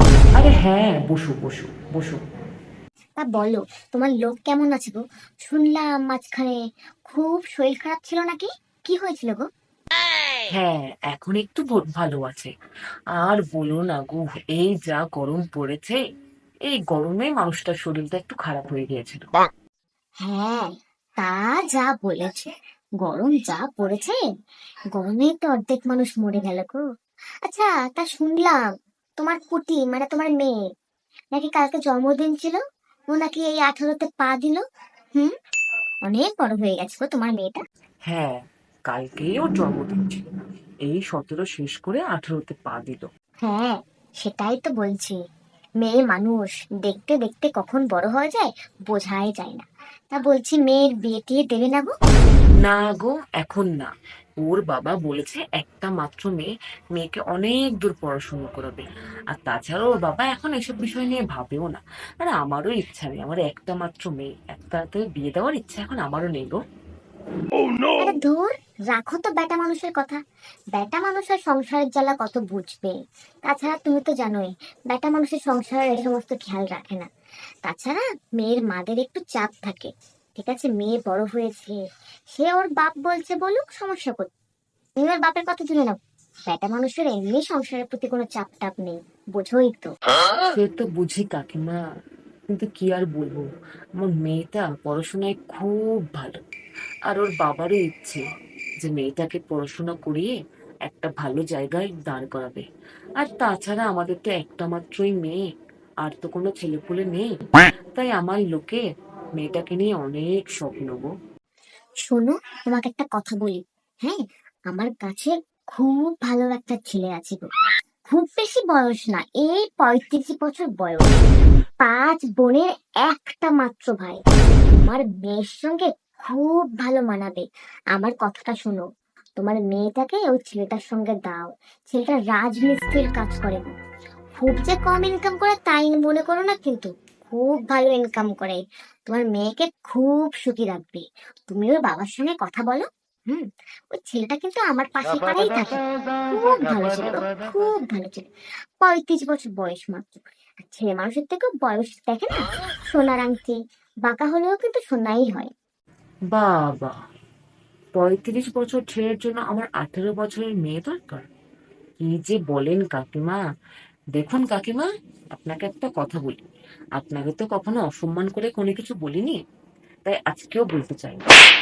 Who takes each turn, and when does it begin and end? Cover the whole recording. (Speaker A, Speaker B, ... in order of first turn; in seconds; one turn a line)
Speaker A: 0.4-2.2
Speaker B: 3.2-9.4
Speaker A: 10.5-12.5
Speaker A: 13.2-16.0
Speaker A: 16.7-19.2
Speaker B: 20.2-24.2
Speaker B: 24.9-26.8
Speaker B: 27.4-30.6
Speaker B: 31.3-32.6
Speaker B: 33.1-34.6
Speaker B: 36.0-37.6
Speaker A: 38.1-40.2
Speaker A: 40.9-43.1
Speaker B: 43.4-45.2
Speaker B: 45.8-51.9
Speaker A: 52.6-53.9
Speaker A: 54.4-66.6
Speaker B: 68.0-70.2
Speaker B: 70.7-73.0
Speaker B: 73.5-77.1
Speaker B: 77.6-81.8
Speaker B: 82.3-84.3
Speaker B: 85.0-86.0
Speaker B: 86.5-89.9
Speaker A: 90.4-91.8
Speaker A: 92.5-93.4
Speaker A: 94.0-96.4
Speaker A: 97.1-98.2
Speaker A: 98.8-100.3
Speaker A: 100.9-102.6
Speaker A: 103.2-105.4
Speaker A: 106.0-107.3
Speaker A: 107.9-108.8
Speaker A: 109.4-111.1
Speaker B: 112.1-117.5
Speaker B: 118.1-121.2
Speaker B: 121.8-128.8
Speaker B: 129.4-133.7
Speaker B: 134.3-148.3
Speaker B: 148.8-155.5
Speaker A: 156.3-156.9
Speaker A: 158.0-161.2
Speaker A: 162.0-163.4
Speaker A: 164.1-166.4
Speaker A: 167.0-169.4
Speaker A: 170.0-171.3